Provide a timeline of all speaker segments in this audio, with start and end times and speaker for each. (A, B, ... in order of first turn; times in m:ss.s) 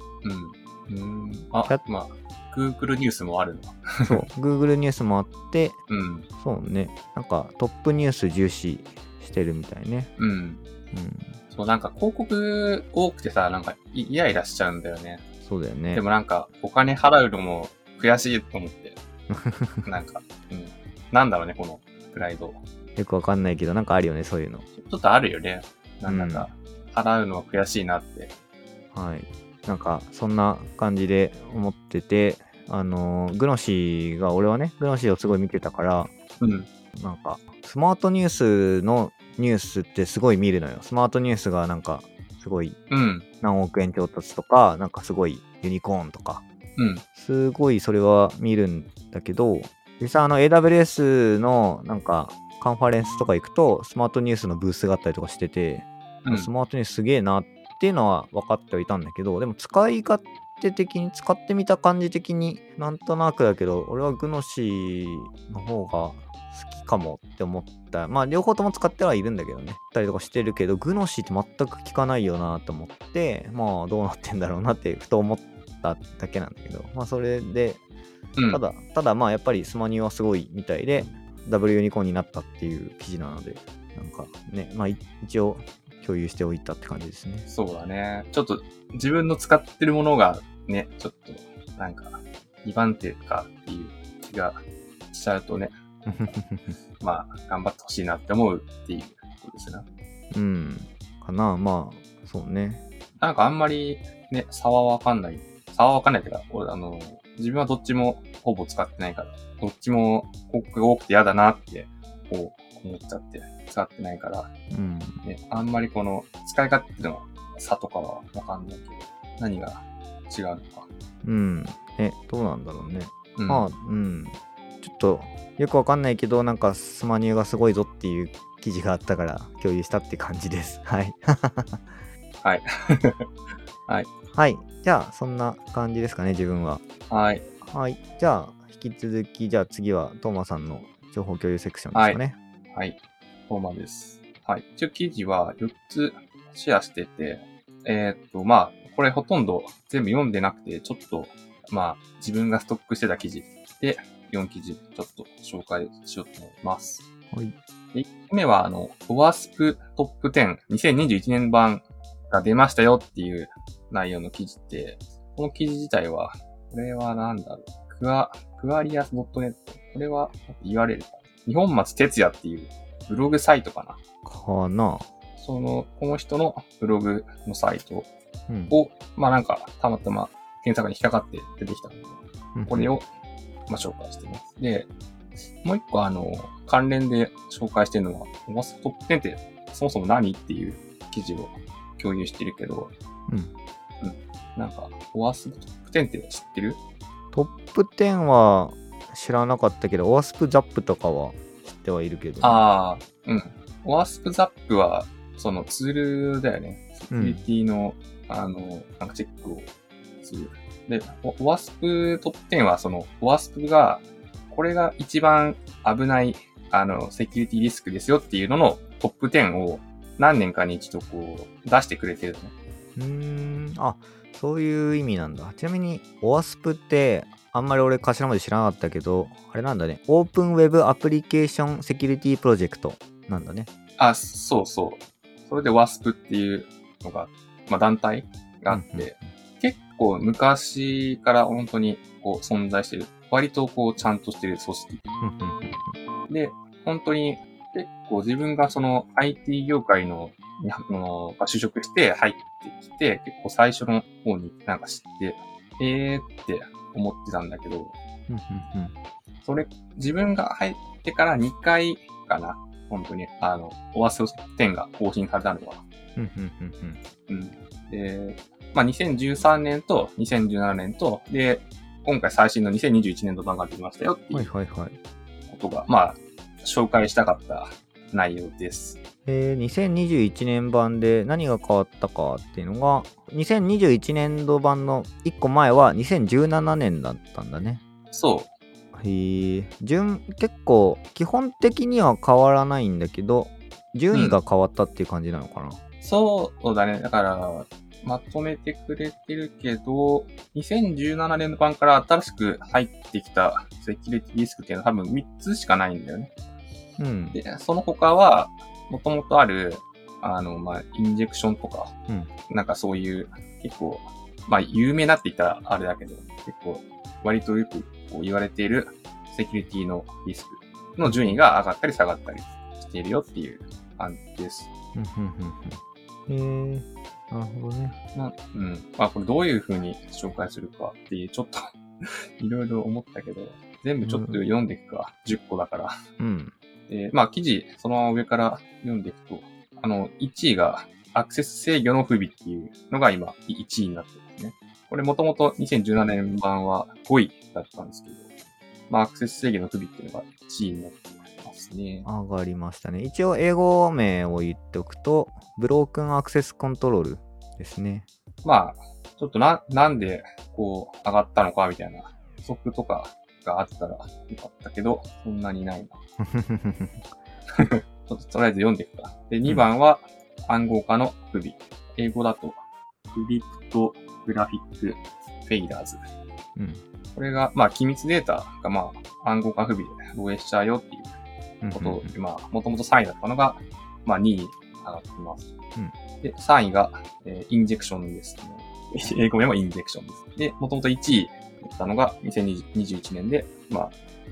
0:00.2-0:04.2 A
0:04.0-0:05.8 B
0:05.9-0:06.3 A
0:06.4-0:10.1 B
0:10.2-0:10.6 A
0:10.9-0:11.4 B
0:11.5-0:15.2 A
0:15.4-0:16.0 B
0:15.9-0:19.0 A
0:19.3-0:19.9 B
0:19.8-0:22.6 A
0:23.0-0:24.6 B
0:24.7-0:28.3 A
0:26.0-0:26.5 B
0:28.9-0:36.1 B
0:36.4-0:36.7 A
0:37.0-0:42.8 B
0:42.9-0:43.2 A
0:43.4-0:46.4 B
0:46.8-0:47.0 A
0:47.2-1:17.8 B
0:56.2-0:56.5 A
1:18.4-1:18.6 A
1:18.5-1:27.5 B
1:27.5-1:35.7 A
1:36.0-1:36.8 B
1:37.0-1:39.8 A
1:40.3-1:42.8 B
1:43.2-1:54.5 A
1:54.7-1:55.2 B
1:55.2-2:00.9 A
2:01.2-2:12.0 B
2:03.4-2:03.7 A
2:12.4-2:13.2 A
2:14.3-2:16.8 B
2:17.1-2:17.4 A
2:17.6-2:22.4 B
2:21.9-2:22.2 A
2:22.7-2:37.0 A
2:37.9-2:54.0 A
2:54.2-2:55.1 B
2:55.4-2:58.1 A
2:58.5-2:58.7 B
2:58.7-3:03.0 A
3:02.5-3:02.9 B
3:03.7-3:04.9 A
3:05.6-3:12.9 A
3:14.0-3:16.8 A
3:17.3-3:22.6 B
3:22.4-3:29.7 A
3:27.1-3:27.4 B
3:30.2-3:42.5 A
3:43.0-3:53.7 B
3:54.0-4:05.0 A
3:58.7-3:59.3 B
4:05.2-4:05.9 B
4:06.3-4:17.9 A
4:18.3-4:18.9 B
4:19.4-4:25.8 A
4:26.2-4:27.0 B
4:27.3-4:34.5 A
4:34.3-4:35.0 B
4:35.5-4:39.0 A
4:39.2-4:47.8 B
4:48.1-4:48.5 A
4:48.9-4:55.8 B
4:54.1-4:54.4 A
4:56.0-5:06.3 A
5:07.0-5:07.4 B
5:07.3-5:11.9 A
5:12.5-5:24.7 A
5:21.0-5:21.3 B
5:24.9-5:28.0 B
5:28.1-5:31.7 A
5:32.4-5:36.0 A
5:34.0-5:34.4 B
5:36.2-5:36.5 B
5:36.9-5:48.3 A
5:48.9-5:52.1 A
5:52.0-5:58.1 B
5:58.4-6:06.0 A
6:06.2-6:07.1 B
6:07.5-6:16.0 A
6:16.6-6:16.8 B
6:17.1-6:21.1 A
6:21.6-6:22.1 B
6:21.7-6:25.5 A
6:26.2-6:34.0 A